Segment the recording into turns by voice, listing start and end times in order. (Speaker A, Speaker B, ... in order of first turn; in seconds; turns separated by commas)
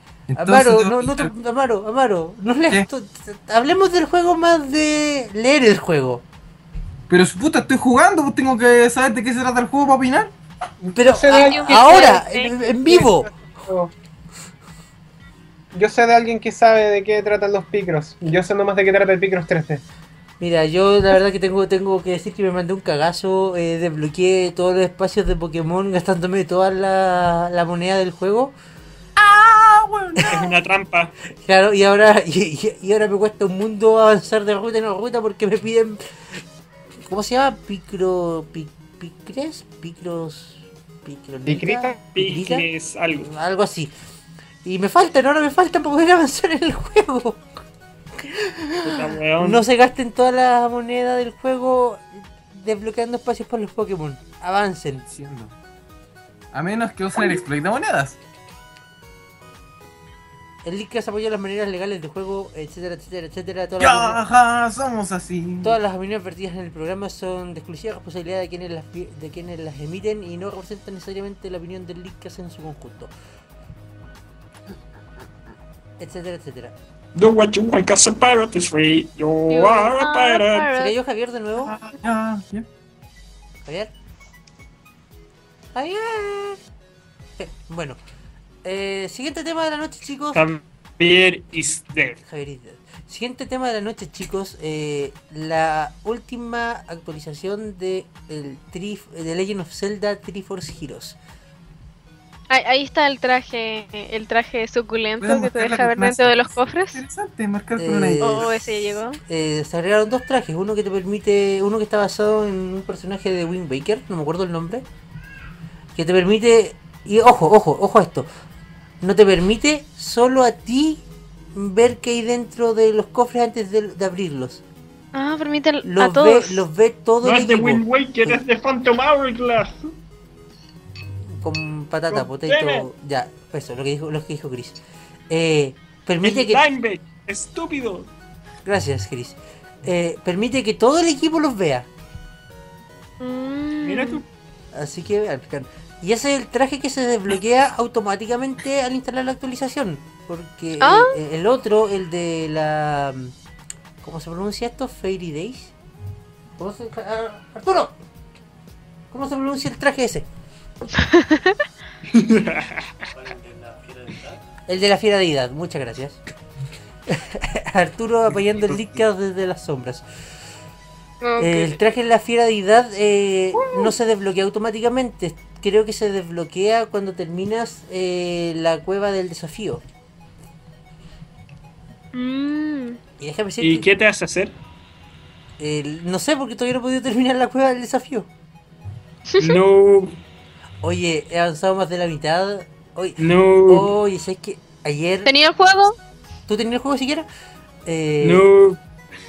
Speaker A: 0.3-1.3, Speaker B: 0.3-6.2, Speaker A: 7.1-10.3, Speaker B: 10.9-13.3, Speaker C: 11.0-12.2, Speaker D: 11.3-12.5, Speaker C: 12.8-13.9, Speaker C: 15.7-19.8, Speaker B: 20.4-28.5, Speaker A: 29.2-30.5, Speaker E: 30.3-31.1, Speaker B: 31.4-36.4, Speaker B: 37.0-42.7, Speaker C: 41.5-42.0, Speaker E: 42.1-43.3, Speaker B: 43.2-43.9, Speaker B: 44.6-47.4, Speaker B: 48.2-55.0, Speaker E: 48.8-49.6, Speaker A: 55.1-55.5, Speaker A: 56.5-58.2, Speaker B: 60.6-64.2, Speaker A: 63.8-65.8, Speaker B: 65.6-73.1, Speaker B: 76.0-76.7, Speaker E: 77.2-80.7, Speaker D: 79.5-80.9, Speaker B: 80.7-81.7, Speaker A: 81.7-82.7, Speaker B: 83.6-83.9, Speaker B: 85.7-86.6, Speaker B: 87.4-88.0, Speaker B: 88.6-90.4, Speaker E: 90.3-92.2, Speaker B: 92.2-101.2, Speaker D: 102.5-107.0, Speaker A: 105.2-108.6, Speaker B: 107.8-108.6, Speaker D: 108.2-109.2, Speaker B: 109.2-114.8, Speaker B: 116.0-118.3, Speaker B: 119.0-124.6, Speaker D: 125.1-126.6, Speaker B: 125.8-128.4, Speaker E: 127.2-129.9, Speaker B: 131.4-134.8, Speaker E: 132.1-132.8, Speaker B: 135.3-136.6, Speaker E: 136.2-138.1, Speaker B: 138.6-141.9, Speaker D: 143.2-144.2, Speaker E: 143.8-144.2, Speaker B: 144.7-153.3, Speaker D: 150.8-151.1, Speaker B: 154.0-155.7, Speaker B: 156.6-157.9, Speaker B: 159.1-160.3, Speaker D: 160.9-161.6, Speaker E: 162.1-163.1, Speaker A: 163.4-164.3, Speaker B: 164.7-166.2, Speaker B: 167.1-170.1, Speaker D: 171.2-171.8, Speaker B: 171.4-179.8, Speaker D: 182.1-183.0, Speaker B: 183.2-183.9, Speaker E: 183.6-184.5, Speaker B: 185.6-188.3, Speaker E: 189.4-190.2, Speaker B: 190.8-195.3, Speaker E: 193.2-193.9, Speaker D: 195.2-195.9, Speaker B: 196.5-197.2, Speaker B: 197.8-198.5, Speaker E: 198.2-198.8